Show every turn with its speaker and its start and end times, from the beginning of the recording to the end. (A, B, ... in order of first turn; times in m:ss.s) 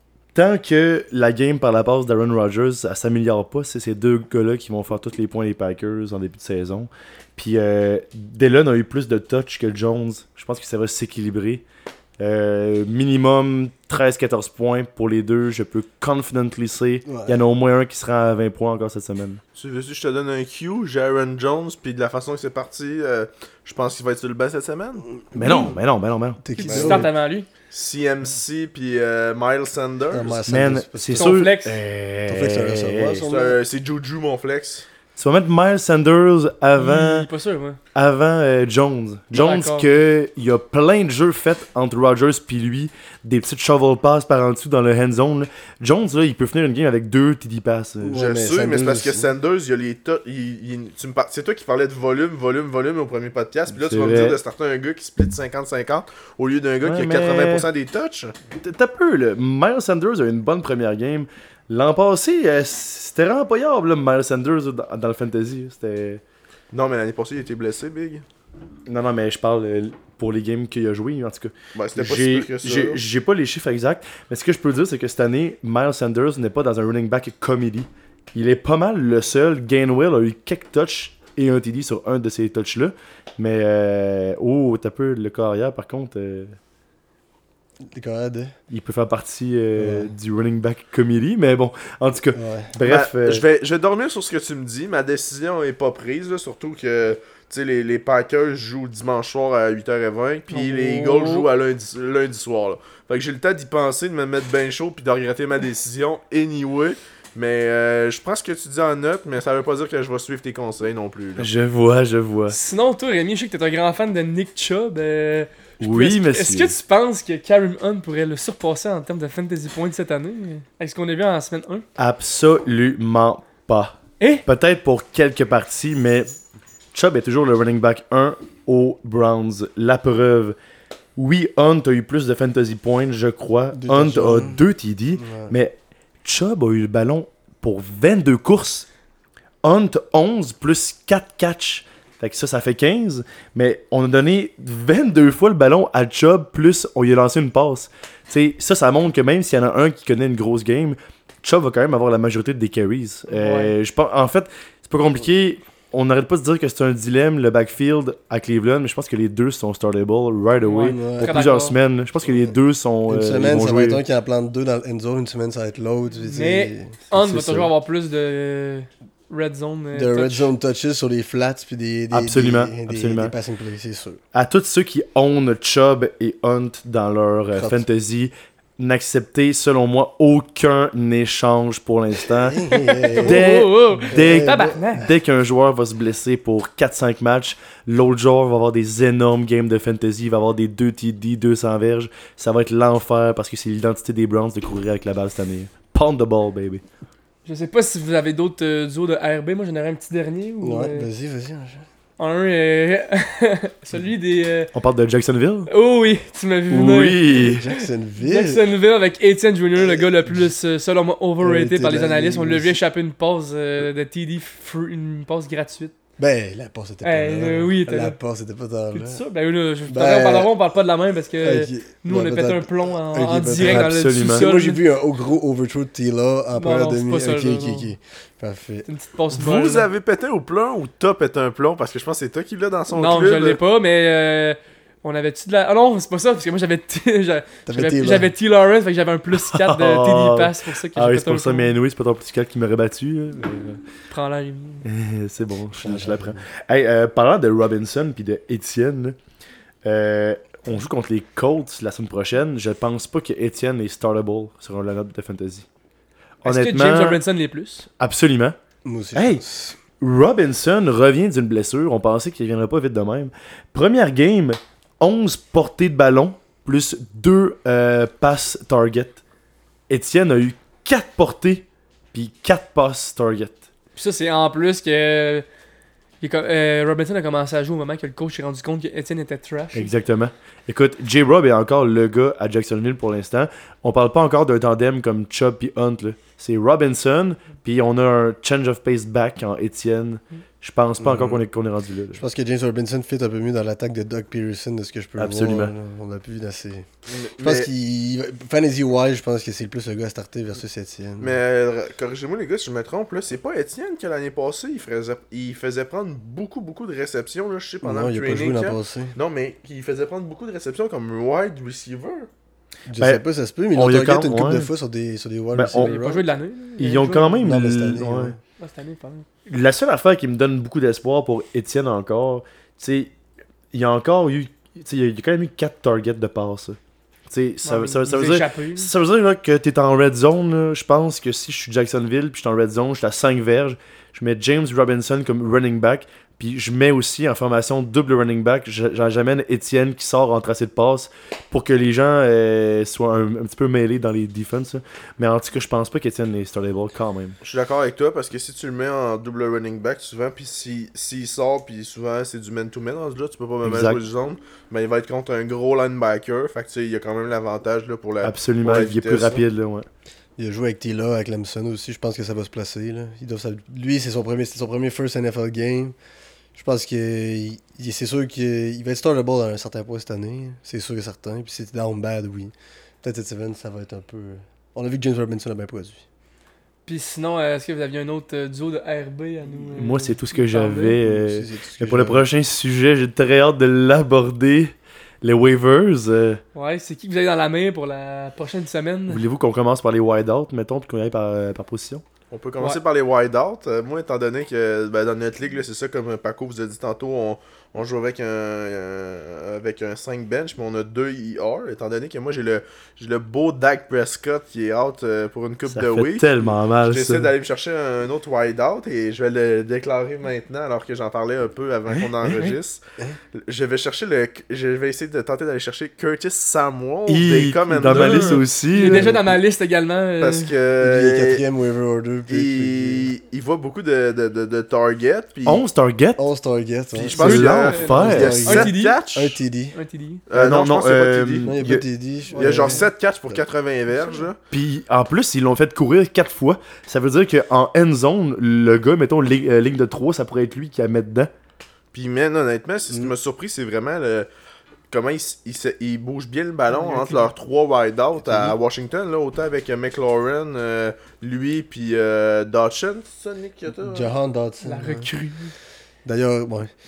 0:00.4-0:11.6 A
0:12.2-0:19.4 A
0:17.1-0:17.4 B
0:19.6-0:25.0 C
0:25.3-0:25.6 B
0:25.3-0:27.0 A
0:25.4-0:25.7 D
0:26.4-0:27.1 B
0:26.6-0:27.5 D
0:27.7-0:30.4 C
0:30.1-0:31.4 B
0:30.5-0:33.3 A
0:31.2-0:31.8 D
0:32.3-0:33.6 B
0:33.3-0:34.9 C
0:35.2-0:37.3 A
0:36.8-0:37.8 D
0:37.9-0:48.2 A
0:39.3-0:39.9 D
0:48.0-0:49.3 B
0:48.2-0:58.4 C
0:53.7-0:54.4 A
0:56.8-0:57.7 A
0:58.5-1:06.2 A
1:06.7-1:08.2 C
1:08.9-1:26.6 A
1:11.8-1:13.0 C
1:27.8-1:28.5 B
1:28.7-1:33.4 A
1:29.8-1:30.1 B
1:32.3-1:32.7 B
1:32.8-1:51.5 C
1:40.5-1:41.5 D
1:51.4-1:52.6 A
1:52.5-2:01.8 D
1:55.8-1:56.8 A
2:02.0-2:06.3 A
2:06.9-2:10.6 A
2:11.2-2:18.9 A
2:13.7-2:14.6 B
2:15.2-2:15.6 B
2:19.6-2:44.0 A
2:33.3-2:33.7 D
2:40.6-2:41.8 D
2:40.8-2:41.5 B
2:43.1-2:47.5 B
2:46.3-2:50.5 D
2:47.2-2:47.7 A
2:49.9-2:54.2 B
2:52.1-2:53.3 A
2:54.3-3:02.6 A
2:57.5-2:57.8 B
3:02.3-3:03.4 B
3:02.7-3:05.1 D
3:03.2-3:16.8 A
3:04.1-3:05.1 B
3:17.5-3:21.1 D
3:20.6-3:21.8 B
3:22.2-3:24.7 D
3:24.7-3:25.7 A
3:25.7-3:35.9 D
3:26.7-3:27.6 A
3:27.3-3:28.6 B
3:29.8-3:30.5 B
3:31.4-3:32.8 B
3:36.2-3:39.2 B
3:37.0-3:38.2 D
3:38.9-3:44.8 D
3:39.9-3:40.5 B
3:41.4-3:48.9 B
3:43.6-3:44.5 A
3:46.6-3:47.9 D
3:48.9-3:49.9 D
3:49.3-3:53.6 C
3:52.9-4:01.7 D
3:57.7-3:58.3 B
3:59.3-4:03.8 A
4:04.1-4:04.9 D
4:04.8-4:09.2 A
4:05.8-4:06.5 B
4:09.8-4:15.6 A
4:16.4-4:17.2 A
4:16.4-4:17.9 D
4:18.0-4:18.6 A
4:18.8-4:19.8 B
4:19.2-4:19.4 A
4:20.0-4:29.2 A
4:29.9-4:33.6 A
4:34.0-4:35.4 D
4:36.2-4:39.9 D
4:39.7-4:52.2 A
4:51.0-4:51.4 B
4:52.1-4:56.9 B
4:55.2-4:55.7 A
4:57.1-4:57.7 C
4:57.4-5:01.4 B
5:01.2-5:12.3 C
5:07.8-5:09.2 B
5:12.9-5:16.3 B
5:13.7-5:14.7 A
5:15.5-5:15.9 A
5:15.7-5:17.4 D
5:16.8-5:18.4 A
5:17.4-5:18.4 B
5:18.6-5:19.3 D
5:19.5-5:23.1 A
5:23.7-5:26.8 A
5:27.3-5:47.4 A
5:27.6-5:28.9 D
5:47.4-5:59.4 C
5:53.6-5:54.0 A
5:58.2-5:59.9 A
6:00.4-6:06.0 B
6:06.5-6:16.0 B
6:16.9-6:21.0 D
6:19.8-6:26.4 A
6:21.0-6:22.2 B
6:26.6-6:29.2 D
6:29.1-6:32.0 A
6:32.3-6:52.8 C
6:45.7-6:47.3 A
6:51.9-6:52.6 A
6:53.4-6:58.4 C
6:57.1-6:59.1 A
6:57.9-7:00.5 D
6:58.9-6:59.4 B
7:00.2-7:01.4 C
7:00.8-7:03.1 B
7:02.3-7:05.6 C
7:05.5-7:06.2 A
7:06.2-7:09.8 B
7:06.9-7:09.4 C
7:07.1-7:08.5 A
7:07.3-7:09.0 D
7:09.8-7:10.2 D
7:10.3-7:11.6 C
7:10.3-7:11.8 A
7:11.4-7:13.4 B
7:12.3-7:14.4 C
7:14.5-7:21.3 A
7:21.9-7:24.3 C
7:24.9-7:34.1 C
7:26.7-7:27.3 D
7:28.2-7:28.6 B
7:33.8-7:35.1 B
7:34.6-7:35.5 D
7:36.0-7:36.7 B